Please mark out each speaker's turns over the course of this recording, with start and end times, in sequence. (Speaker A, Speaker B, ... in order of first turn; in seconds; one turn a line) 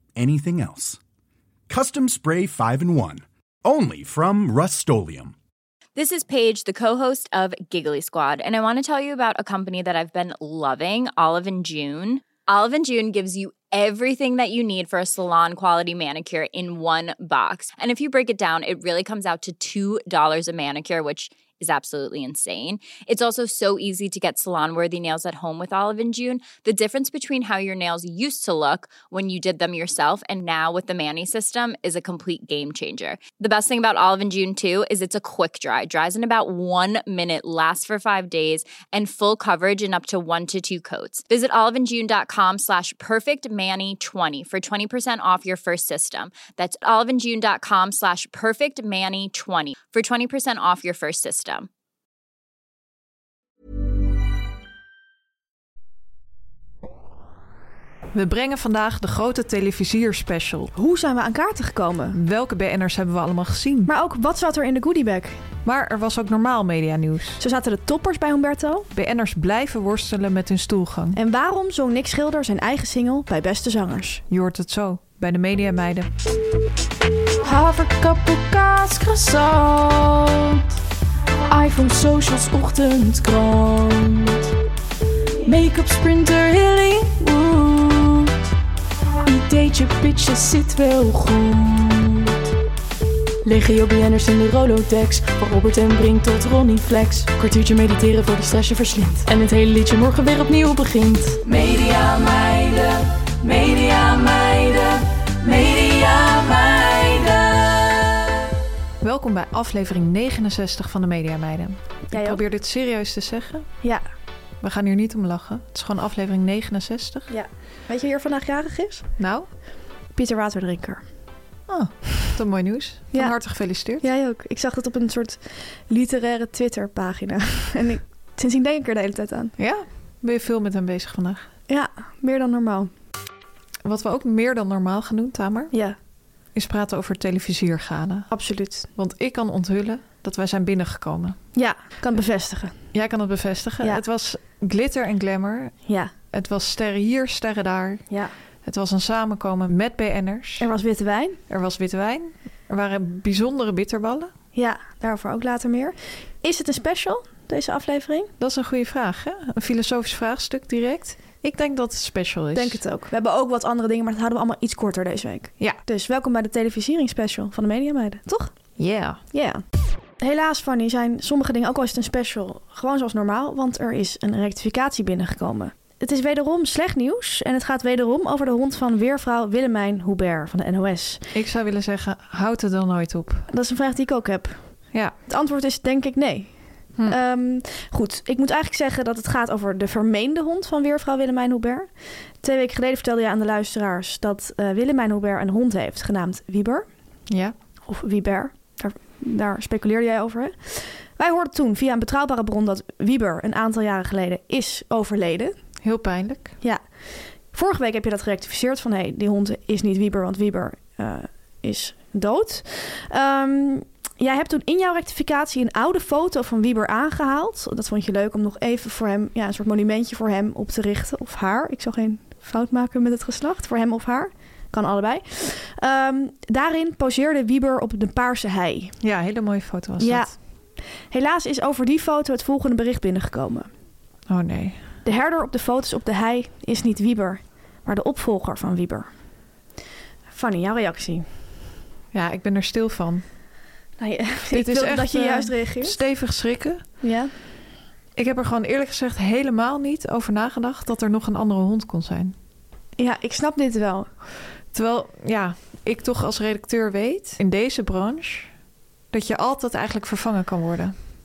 Speaker A: 0.2-1.0
Speaker A: 1.7-5.3
Speaker B: 6.0-51.7
Speaker C: 58.1-60.7
Speaker D: 60.7-62.2
Speaker C: 62.1-63.9
Speaker D: 63.9-65.4
Speaker C: 65.7-67.4
Speaker D: 67.4-68.9
Speaker C: 68.9-71.2
Speaker D: 71.2-74.2
Speaker C: 74.3-76.1
Speaker E: 77.4-80.6
Speaker E: 81.5-84.5
Speaker E: 85.4-88.3
Speaker E: 89.3-92.4
Speaker E: 93.5-108.1
Speaker C: 109.0-113.7
Speaker D: 112.1-112.4
Speaker C: 114.6-117.3
Speaker D: 117.3-119.0
Speaker C: 119.2-119.5
Speaker D: 120.2-121.0
Speaker C: 121.7-124.0
Speaker D: 124.0-129.5
Speaker C: 129.6-131.5
Speaker D: 131.7-132.9
Speaker C: 133.8-135.7
Speaker C: 136.6-138.3
Speaker D: 138.3-138.9
Speaker C: 138.9-141.4
Speaker D: 141.6-142.8
Speaker C: 142.9-145.7
Speaker D: 145.9-146.1
Speaker C: 146.3-148.1
Speaker C: 148.7-150.7
Speaker D: 150.6-151.4
Speaker C: 151.5-154.3
Speaker D: 154.5-158.3
Speaker C: 158.4-162.8
Speaker D: 162.6-168.5
Speaker C: 168.8-169.2
Speaker D: 169.3-169.6
Speaker D: 170.2-181.2
Speaker C: 181.3-183.5
Speaker D: 183.5-184.6
Speaker D: 185.3-186.5
Speaker D: 187.1-191.9
Speaker D: 192.4-196.9
Speaker C: 197.3-197.6
Speaker D: 197.9-205.6
Speaker C: 205.8-206.5
Speaker D: 207.5-228.9
Speaker C: 229.0-230.3
Speaker D: 230.0-230.3
Speaker D: 231.1-233.7
Speaker C: 234.3-234.8
Speaker D: 235.1-239.1
Speaker D: 240.3-241.3
Speaker C: 242.1-243.2
Speaker D: 244.0-246.0
Speaker C: 244.5-246.8
Speaker D: 247.0-247.3
Speaker C: 248.2-252.3
Speaker D: 253.0-254.1
Speaker C: 254.7-258.5
Speaker C: 259.1-260.9